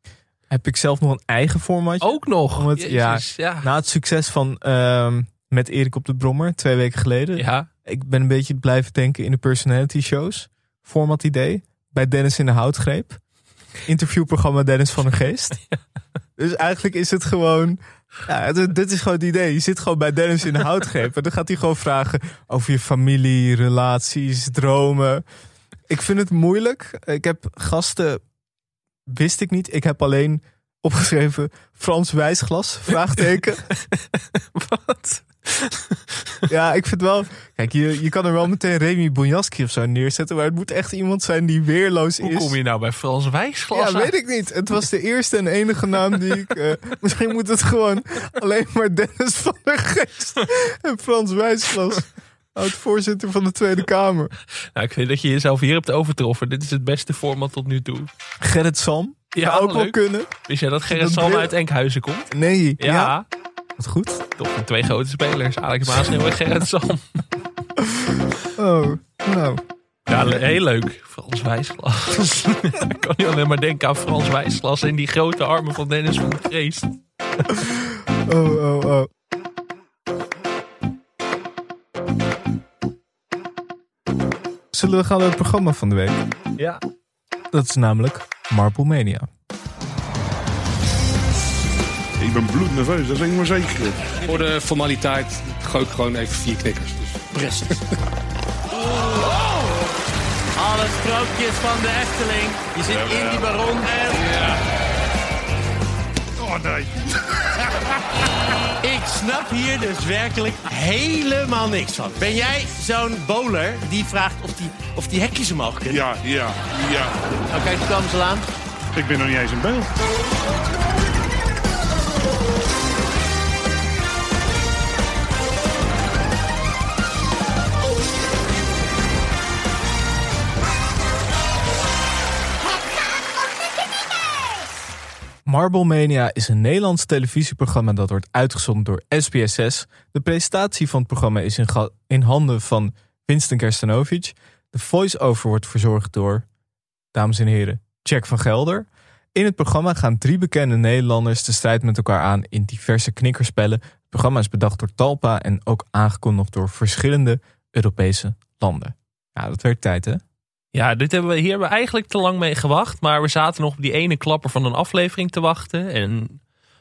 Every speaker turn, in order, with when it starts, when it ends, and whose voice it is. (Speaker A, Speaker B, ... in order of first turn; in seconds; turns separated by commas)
Speaker A: 0.5-13.2, Speaker B: 2.0-3.7, Speaker B: 7.3-7.7, Speaker A: 13.8-15.6, Speaker A: 16.4-25.2, Speaker A: 25.9-28.2, Speaker A: 29.1-33.6, Speaker B: 33.9-36.4, Speaker A: 36.5-42.5, Speaker B: 42.2-44.1, Speaker A: 43.7-54.3, Speaker B: 54.7-58.1, Speaker A: 58.4-60.3, Speaker B: 59.3-63.2, Speaker A: 60.9-61.5, Speaker A: 62.3-63.1, Speaker A: 63.8-64.2, Speaker B: 64.4-67.2, Speaker A: 67.8-69.6, Speaker B: 70.1-77.0, Speaker A: 70.1-70.4, Speaker A: 77.5-79.1, Speaker A: 84.7-86.2, Speaker A: 87.5-89.3, Speaker C: 92.2-94.5, Speaker D: 94.3-96.9, Speaker E: 99.0-99.4, Speaker E: 100.5-104.3, Speaker C: 102.8-103.5, Speaker C: 104.1-104.6, Speaker C: 106.4-106.9, Speaker E: 108.8-116.1, Speaker C: 115.8-117.2, Speaker E: 117.5-118.5, Speaker C: 118.9-119.9, Speaker A: 135.4-146.4, Speaker A: 147.1-160.2, Speaker B: 160.7-166.4